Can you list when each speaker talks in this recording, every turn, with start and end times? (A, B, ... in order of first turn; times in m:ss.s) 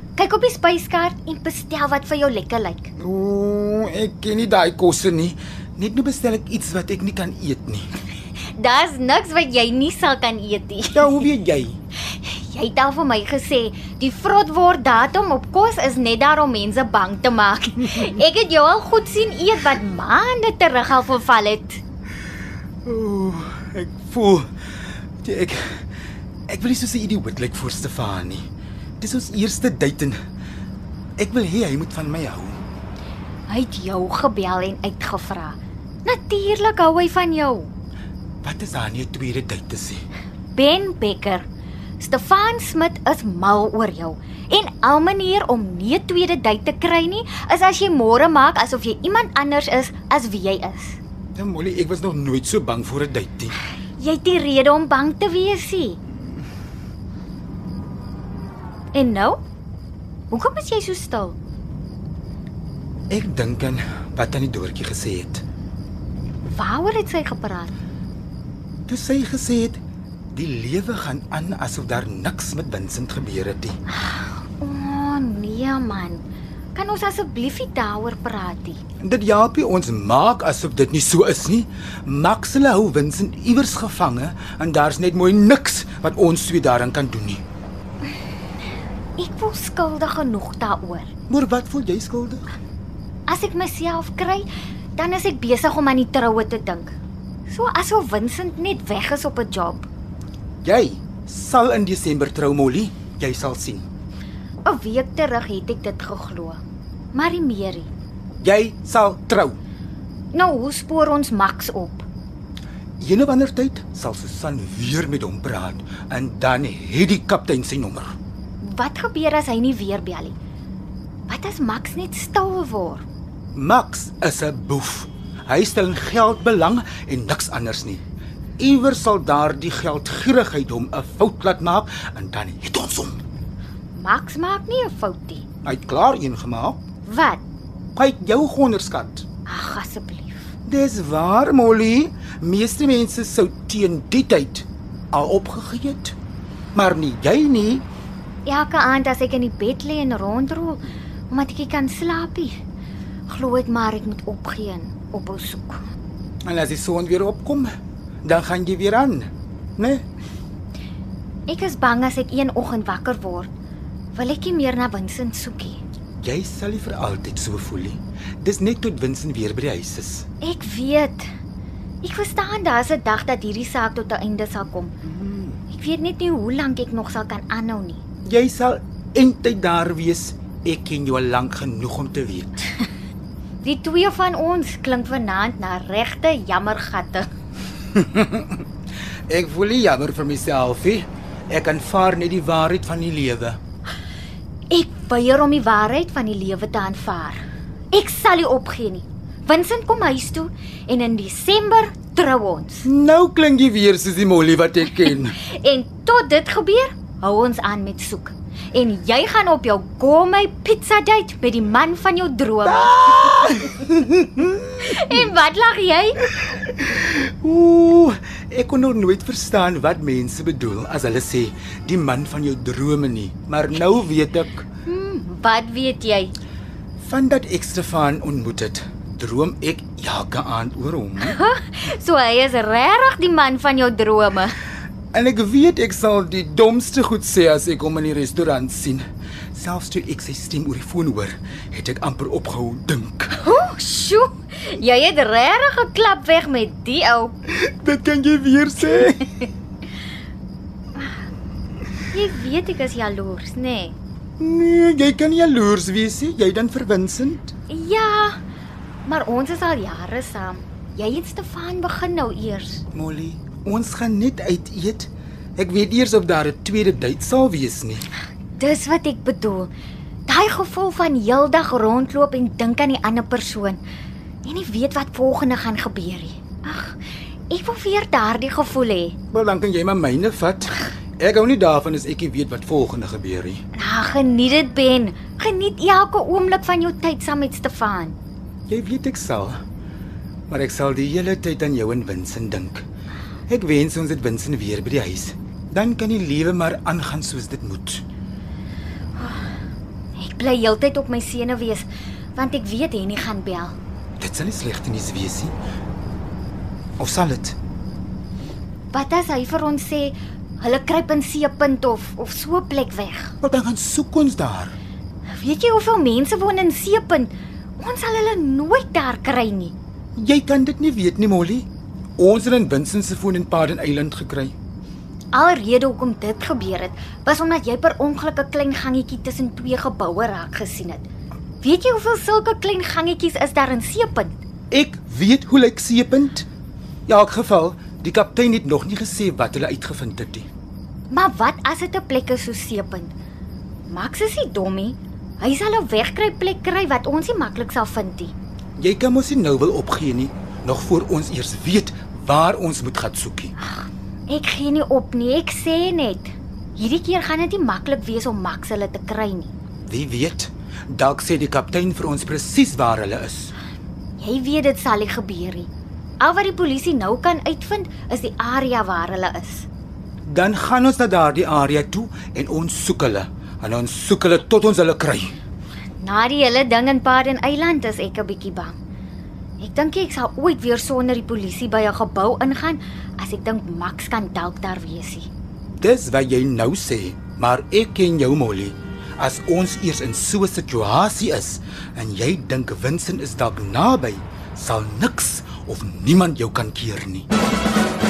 0:00.2-0:02.9 A
0:03.0-0:07.9 B
0:08.5-0:11.3 A
0:10.9-0:11.8 B
0:12.0-0:21.8 A
0:22.8-0:24.4 B
0:25.2-0:25.8 B
0:26.5-0:28.4 B
0:29.0-0:30.2 B
0:31.2-0:32.6 B
0:33.5-0:37.7 A
0:38.4-0:40.0 B
0:40.5-0:41.4 A
0:42.0-0:51.0 A
0:51.4-0:53.6 B
0:54.0-0:56.0 A
0:58.9-0:59.4 A
1:00.3-1:01.4 A
1:03.1-1:05.4 B
1:06.5-1:07.7 A
1:08.9-1:09.8 B
1:10.3-1:13.7 B
1:13.9-1:16.2 A
1:16.7-1:18.8 A
1:19.0-1:27.4 B
1:29.2-1:31.1 A
1:31.3-1:32.5 B
1:33.3-1:36.9 A
1:37.5-1:39.8 A
1:40.6-1:43.8 B
1:44.6-1:46.6 A
1:47.1-1:47.9 A
1:48.4-1:49.6 B
1:50.3-1:52.0 A
1:53.0-1:58.1 B
1:58.6-2:00.4 A
2:01.3-2:03.0 A
2:03.5-2:08.0 B
2:08.6-2:13.2 B
2:13.9-2:15.4 A
2:15.6-2:16.8 B
2:17.0-2:17.4 A
2:17.9-2:19.2 B
2:19.4-2:20.5 A
2:20.6-2:26.1 B
2:26.8-2:27.8 B
2:28.4-2:32.5 A
2:33.3-2:35.8 A
2:36.4-2:37.7 B
2:38.2-2:40.0 B
2:41.5-2:43.5 A
2:44.1-2:45.8 A
2:46.2-2:50.2 B
2:50.4-2:51.3 A
2:52.0-2:54.9 A
2:55.0-2:55.6 B
2:55.7-2:58.0 A
2:58.2-3:02.7 B
3:03.6-3:07.3 A
3:07.9-3:08.6 B
3:09.3-3:13.6 B
3:14.7-3:22.9 A
3:22.8-3:25.4 B
3:25.4-3:33.6 A
3:32.6-3:35.3 B
3:34.8-3:36.2 A
3:36.4-3:44.6 B
3:44.9-3:46.3 A
3:47.0-3:51.4 B
3:51.2-3:54.6 A
3:55.1-4:03.4 B
4:03.4-4:07.4 A
4:07.5-4:09.4 B
4:10.9-4:11.2 A
4:12.1-4:14.0 A
4:14.4-4:17.5 B
4:17.7-4:18.4 A
4:19.0-4:22.8 A
4:22.9-4:28.0 B
4:28.6-4:29.7 A
4:30.3-4:33.8 A
4:34.4-4:37.0 A
4:37.5-4:39.2 A
4:39.3-4:43.6 B
4:43.8-4:48.2 A
4:48.7-4:49.6 B
4:50.5-4:52.8 B
4:53.5-4:58.0 B
5:00.2-5:03.8 A
5:04.2-5:05.5 B
5:07.0-5:07.6 B
5:08.9-5:13.4 A
5:13.4-5:14.8 B
5:15.3-5:19.8 A
5:20.2-5:21.7 B
5:22.2-5:24.5 B
5:25.3-5:31.1 A
5:31.6-5:34.4 A
5:34.7-5:36.5 B
5:37.1-5:40.5 B
5:41.1-5:43.1 A
5:43.9-5:48.3 A
5:48.8-5:53.5 B
5:53.8-5:59.5 A
5:59.8-6:03.5 B
6:04.2-6:09.7 A
6:10.3-6:15.4 B
6:16.0-6:18.8 A
6:19.6-6:25.3 A
6:25.7-6:37.3 B